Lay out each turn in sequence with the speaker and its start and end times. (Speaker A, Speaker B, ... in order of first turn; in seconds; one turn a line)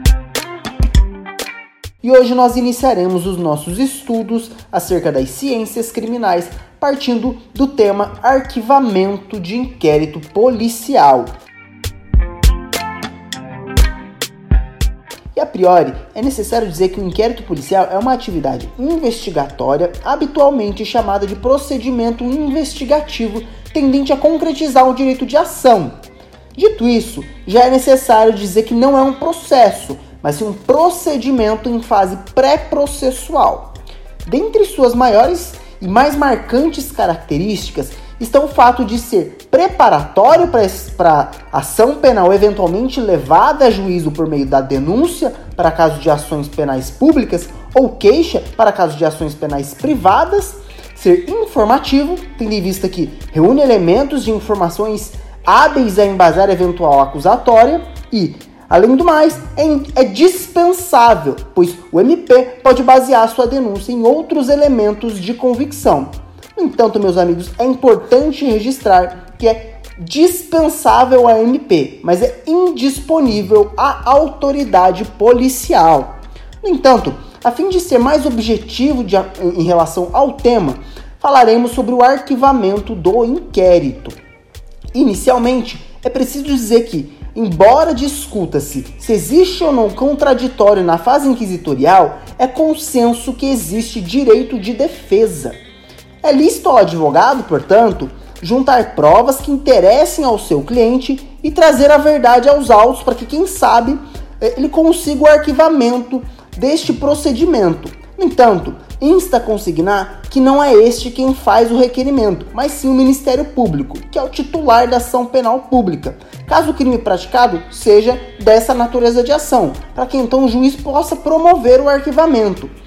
Speaker A: 2.0-11.3
Speaker A: 15.3-25.9
Speaker A: 26.6-33.7
Speaker A: 34.3-84.2
Speaker A: 84.9-95.6
Speaker A: 96.2-122.7